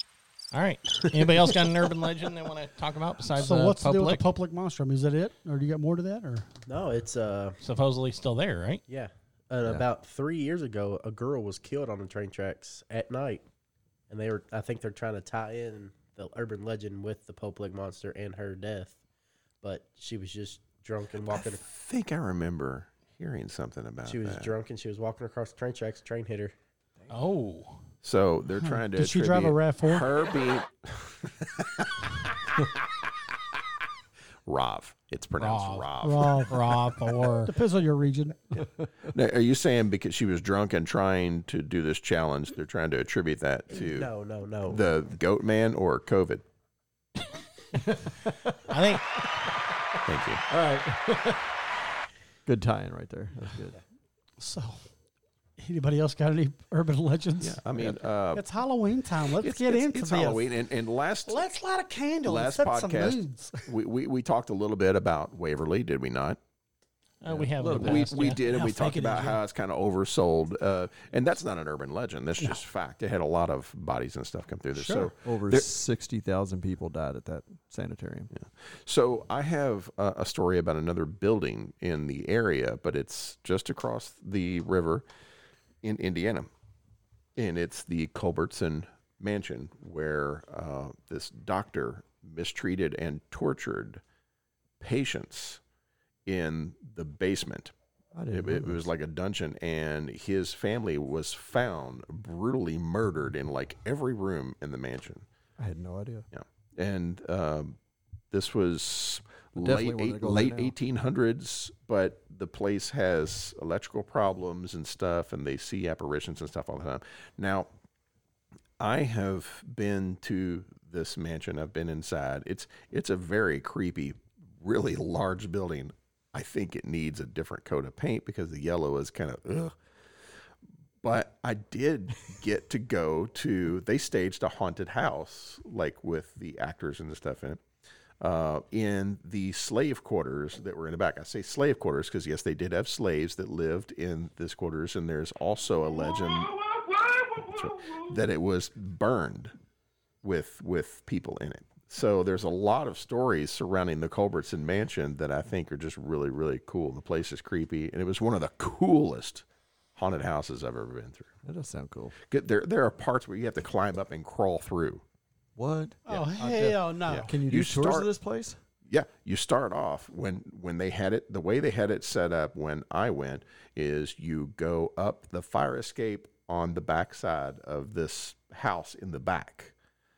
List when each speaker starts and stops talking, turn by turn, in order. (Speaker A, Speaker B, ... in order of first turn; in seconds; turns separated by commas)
Speaker A: 0.5-4.2, Speaker B: 3.3-6.5, Speaker C: 6.6-7.6, Speaker A: 7.6-8.8, Speaker C: 8.9-13.4, Speaker C: 14.1-19.0, Speaker C: 19.6-21.6, Speaker D: 21.6-24.5, Speaker C: 24.0-26.5, Speaker A: 27.1-27.9, Speaker D: 28.0-33.1, Speaker B: 28.7-30.1, Speaker D: 34.4-36.8, Speaker A: 35.4-37.5, Speaker B: 36.0-36.6, Speaker B: 37.4-38.6, Speaker D: 39.1-44.1, Speaker C: 43.8-44.8, Speaker D: 44.7-46.4, Speaker E: 47.7-49.2, Speaker A: 48.7-49.2, Speaker D: 50.0-50.4, Speaker E: 50.5-51.6, Speaker E: 52.4-53.8, Speaker B: 54.4-54.9, Speaker B: 55.6-57.6, Speaker D: 57.4-58.4, Speaker B: 58.3-60.5, Speaker D: 59.4-61.5, Speaker B: 61.2-63.7, Speaker D: 62.2-66.4, Speaker A: 67.2-68.4, Speaker E: 67.3-68.2, Speaker D: 67.8-75.7, Speaker B: 68.4-69.4, Speaker B: 74.8-75.1, Speaker E: 75.2-78.3, Speaker D: 78.3-85.0, Speaker D: 85.8-86.5, Speaker D: 87.3-94.0, Speaker D: 94.8-95.6, Speaker D: 96.2-97.7, Speaker E: 98.1-98.8, Speaker D: 98.3-105.3, Speaker E: 105.6-106.3, Speaker D: 106.3-107.8, Speaker D: 108.3-117.7, Speaker E: 109.5-110.7, Speaker D: 118.8-129.8, Speaker D: 131.0-137.6, Speaker D: 138.2-149.5, Speaker D: 150.2-161.3, Speaker E: 161.4-162.2, Speaker D: 162.2-165.0, Speaker E: 165.6-168.6, Speaker B: 166.1-167.3, Speaker D: 167.1-168.1, Speaker D: 168.8-179.7